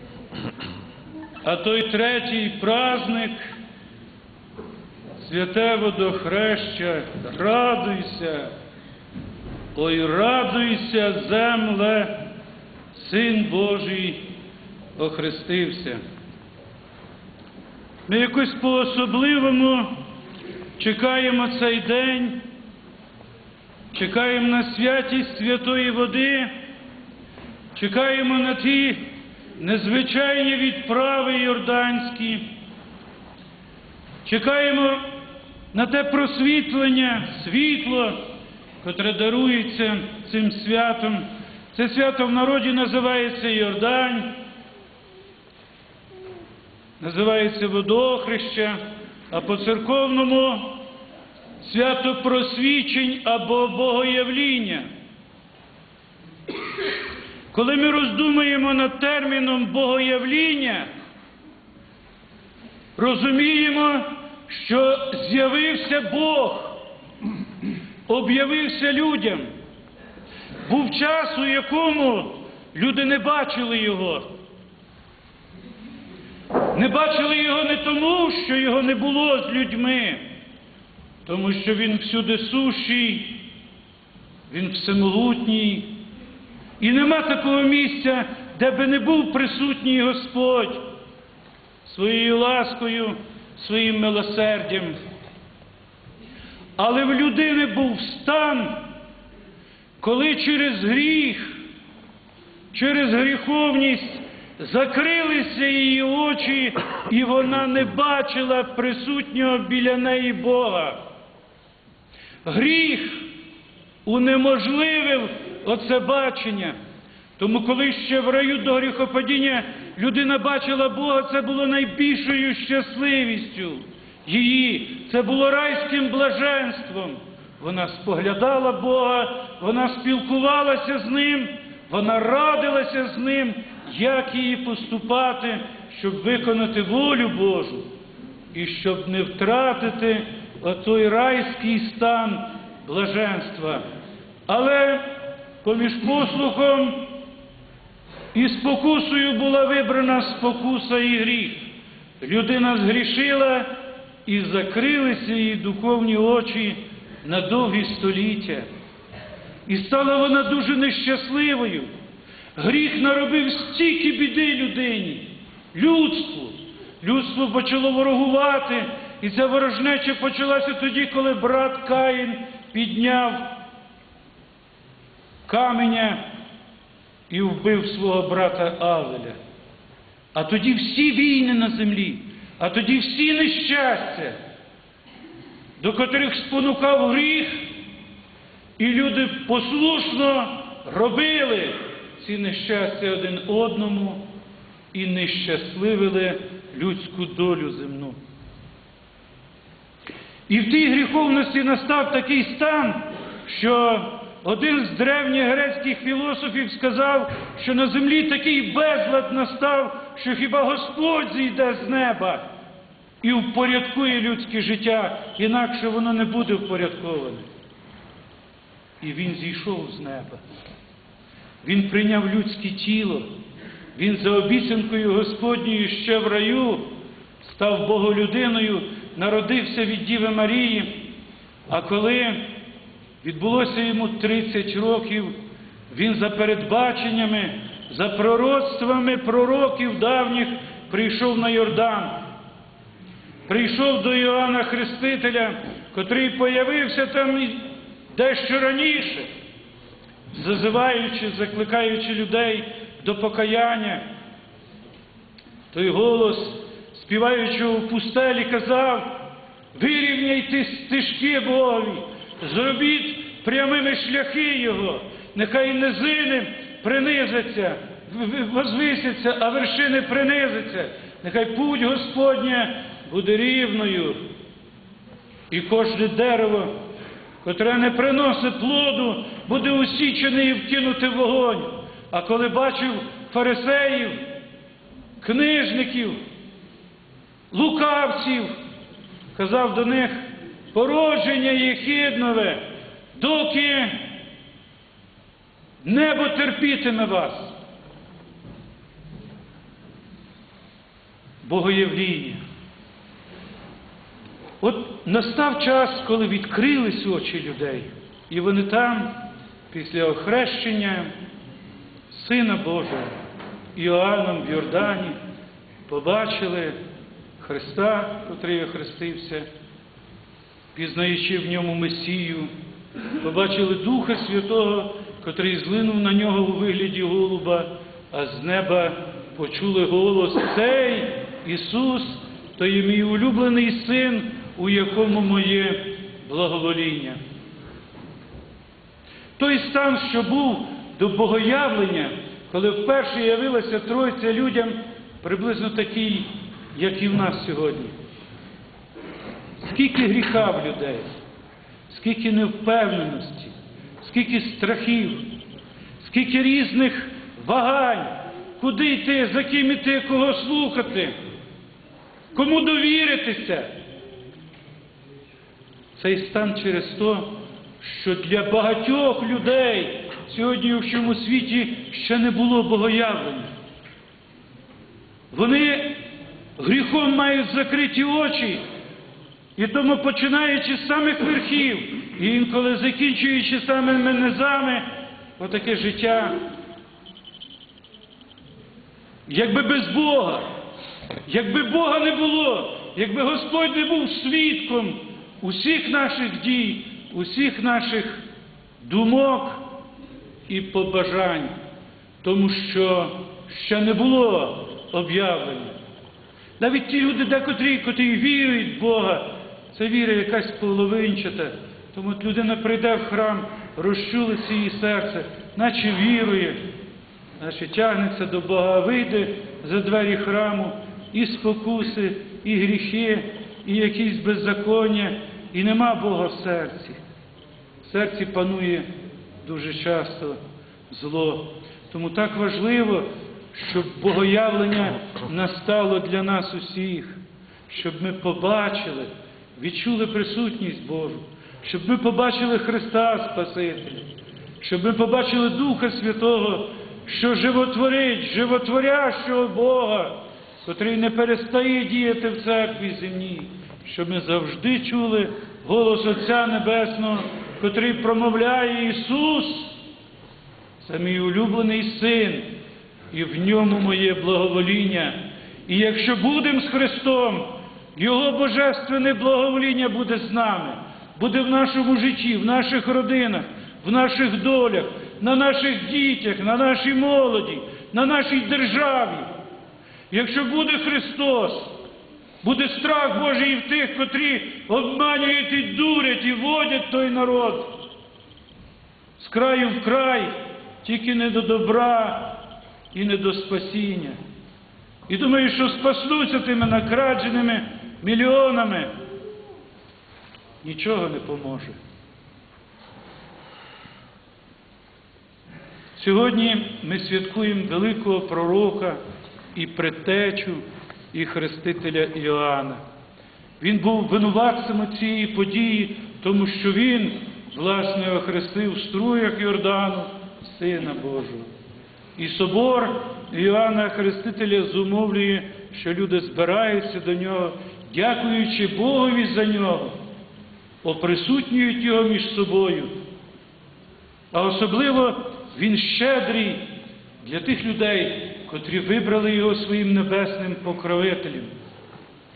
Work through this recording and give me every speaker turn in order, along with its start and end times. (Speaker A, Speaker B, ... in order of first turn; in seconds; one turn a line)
Speaker A: 1.4-3.4
Speaker A: 5.2-8.5
Speaker A: 9.7-12.2
Speaker A: 12.9-14.2
Speaker A: 15.0-16.0
Speaker A: 18.1-19.9
Speaker A: 20.8-22.4
Speaker A: 23.9-26.5
Speaker A: 27.7-29.0
Speaker A: 29.6-32.5
Speaker A: 34.2-35.0
Speaker A: 35.7-38.2
Speaker A: 38.8-44.3
Speaker A: 47.0-48.8
Speaker A: 49.3-50.8
Speaker A: 51.6-54.9
Speaker A: 57.5-60.9
Speaker A: 63.0-66.8
Speaker A: 68.1-69.5
Speaker A: 70.7-74.3
Speaker A: 76.7-80.2
Speaker A: 81.2-83.4
Speaker A: 84.5-85.9
Speaker A: 86.8-90.8
Speaker A: 91.8-95.0
Speaker A: 96.8-98.8
Speaker A: 100.0-101.6
Speaker A: 102.7-111.0
Speaker A: 112.4-113.3
Speaker A: 114.0-116.8
Speaker A: 117.4-137.9
Speaker A: 138.5-143.8
Speaker A: 144.5-145.1
Speaker A: 145.6-147.1
Speaker A: 148.3-151.7
Speaker A: 152.2-153.7
Speaker A: 154.2-158.7
Speaker A: 159.7-161.9
Speaker A: 162.6-173.5
Speaker A: 175.4-176.2
Speaker A: 177.3-179.4
Speaker A: 180.3-184.4
Speaker A: 185.8-187.7
Speaker A: 188.8-194.2
Speaker A: 194.9-198.2
Speaker A: 200.5-212.4
Speaker A: 213.2-217.4
Speaker A: 219.0-220.4
Speaker A: 221.6-223.3
Speaker A: 223.9-226.8
Speaker A: 227.4-231.0
Speaker A: 231.7-232.5
Speaker A: 233.2-235.4
Speaker A: 235.9-242.2
Speaker A: 243.5-249.3
Speaker A: 250.3-254.0
Speaker A: 255.7-259.2
Speaker A: 259.7-274.2
Speaker A: 275.5-276.7
Speaker A: 277.4-284.2
Speaker A: 285.2-286.2
Speaker A: 287.5-288.5
Speaker A: 289.3-292.6
Speaker A: 293.1-294.0
Speaker A: 295.8-297.5
Speaker A: 301.4-302.4
Speaker A: 304.6-309.2
Speaker A: 309.7-311.1
Speaker A: 312.1-313.1
Speaker A: 313.7-315.2
Speaker A: 315.9-316.8
Speaker A: 317.4-319.5
Speaker A: 320.7-322.5
Speaker A: 323.2-337.2
Speaker A: 339.4-347.9
Speaker A: 349.6-351.1
Speaker A: 351.9-355.2
Speaker A: 356.0-361.1
Speaker A: 362.3-363.7
Speaker A: 365.9-373.5
Speaker A: 375.3-376.0
Speaker A: 376.6-378.6
Speaker A: 379.6-384.9
Speaker A: 385.4-386.4
Speaker A: 389.3-390.5
Speaker A: 391.3-398.2
Speaker A: 398.8-399.6
Speaker A: 400.5-401.5
Speaker A: 402.2-405.8
Speaker A: 406.6-416.6
Speaker A: 417.4-427.0
Speaker A: 427.8-428.9
Speaker A: 429.4-444.1
Speaker A: 444.6-459.8
Speaker A: 460.8-462.5
Speaker A: 463.1-479.3
Speaker A: 480.1-481.7
Speaker A: 482.4-487.7
Speaker A: 489.2-492.4
Speaker A: 492.9-494.2
Speaker A: 495.1-498.9
Speaker A: 500.6-501.8
Speaker A: 505.9-509.0
Speaker A: 509.5-512.8
Speaker A: 513.6-521.5
Speaker A: 522.2-530.0
Speaker A: 530.8-532.9
Speaker A: 534.3-536.6
Speaker A: 537.2-541.5